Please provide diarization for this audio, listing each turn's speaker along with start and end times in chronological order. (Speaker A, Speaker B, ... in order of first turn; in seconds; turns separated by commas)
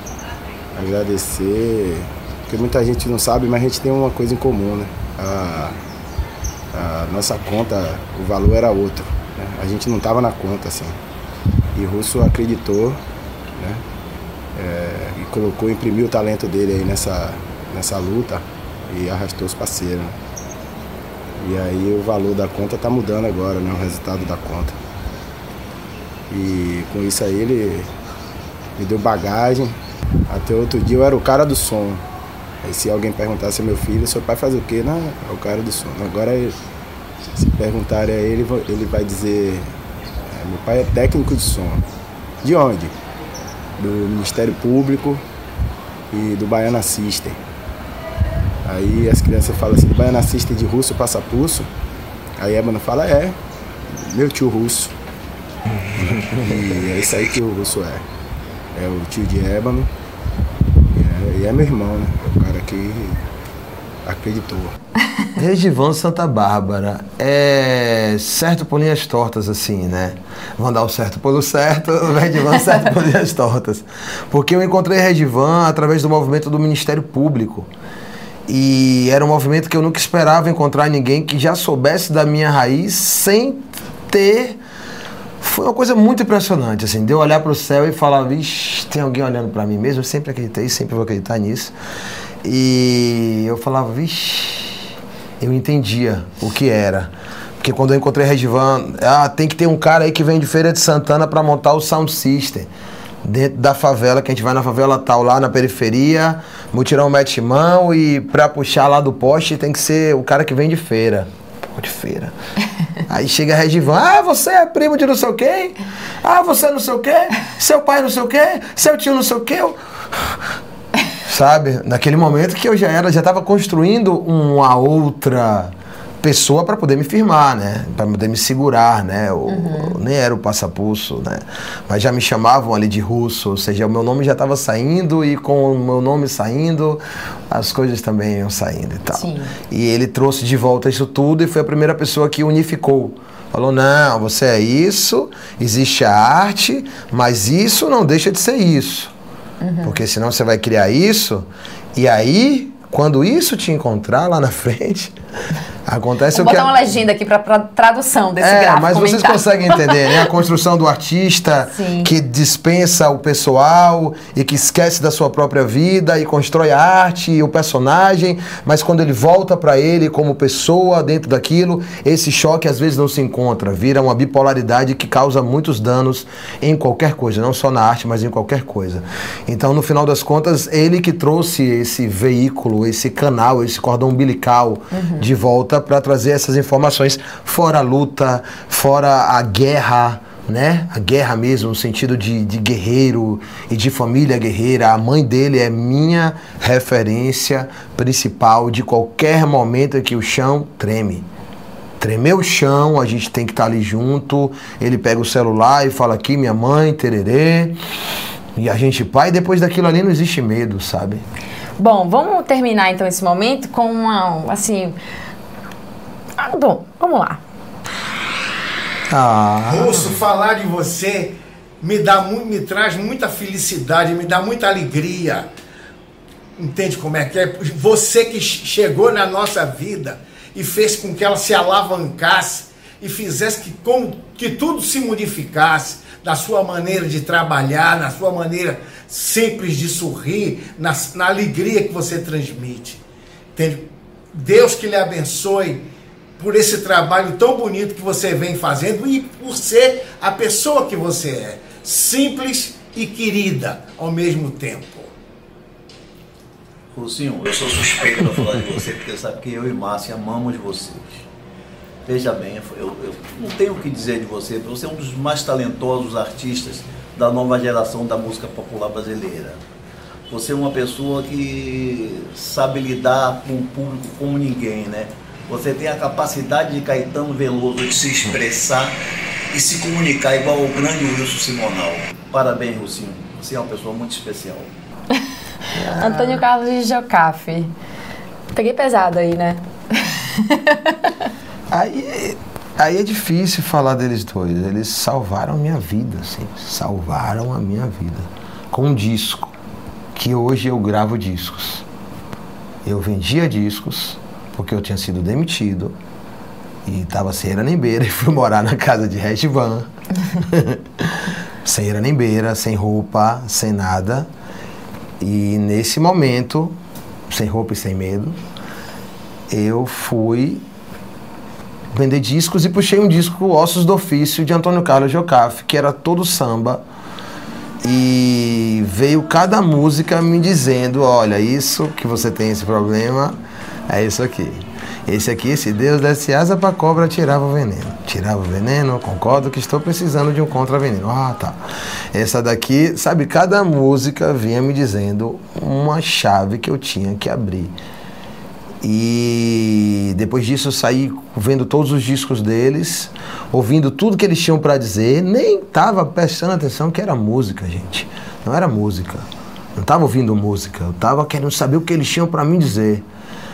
Speaker A: 0.7-5.8, Speaker A: 6.7-11.0, Speaker A: 11.7-13.0, Speaker A: 13.6-13.8, Speaker A: 14.6-20.1, Speaker A: 21.4-24.8, Speaker A: 26.3-27.9, Speaker A: 28.8-29.8, Speaker A: 30.3-32.0, Speaker A: 32.6-36.6, Speaker A: 37.3-39.7, Speaker A: 40.2-41.8, Speaker A: 42.4-42.9, Speaker A: 43.8-45.2, Speaker A: 46.1-47.4, Speaker A: 48.6-51.7, Speaker A: 52.4-53.4, Speaker A: 53.9-54.9, Speaker A: 56.0-58.0, Speaker B: 56.3-56.6, Speaker A: 58.7-59.9, Speaker A: 60.9-63.2, Speaker A: 64.0-64.7, Speaker B: 65.3-77.7, Speaker B: 78.5-84.6, Speaker B: 85.4-91.7, Speaker B: 92.4-94.8, Speaker B: 95.4-102.7, Speaker B: 103.2-112.3, Speaker B: 113.1-120.4, Speaker B: 121.2-149.1, Speaker C: 129.5-130.0, Speaker C: 139.1-139.5, Speaker C: 149.6-150.0, Speaker B: 149.8-155.2, Speaker B: 155.8-156.9, Speaker C: 156.3-160.1, Speaker B: 158.4-201.2, Speaker C: 161.7-162.1, Speaker C: 184.9-185.3, Speaker B: 202.0-207.8, Speaker B: 208.6-211.2, Speaker C: 211.8-214.9, Speaker C: 216.4-217.4, Speaker B: 219.1-220.2, Speaker D: 219.6-225.5, Speaker D: 226.6-243.0, Speaker D: 243.5-255.1, Speaker E: 256.9-261.2, Speaker E: 262.0-269.6, Speaker E: 270.3-278.9, Speaker E: 279.5-284.7, Speaker B: 285.7-286.4, Speaker C: 285.9-287.7, Speaker C: 288.5-290.9, Speaker B: 291.7-299.5, Speaker B: 300.1-301.8, Speaker B: 302.8-305.9, Speaker B: 306.9-314.3, Speaker B: 315.2-316.8, Speaker B: 317.3-318.4, Speaker B: 319.5-320.6, Speaker B: 321.9-326.8, Speaker B: 327.8-341.6, Speaker B: 342.1-347.7, Speaker B: 348.8-363.0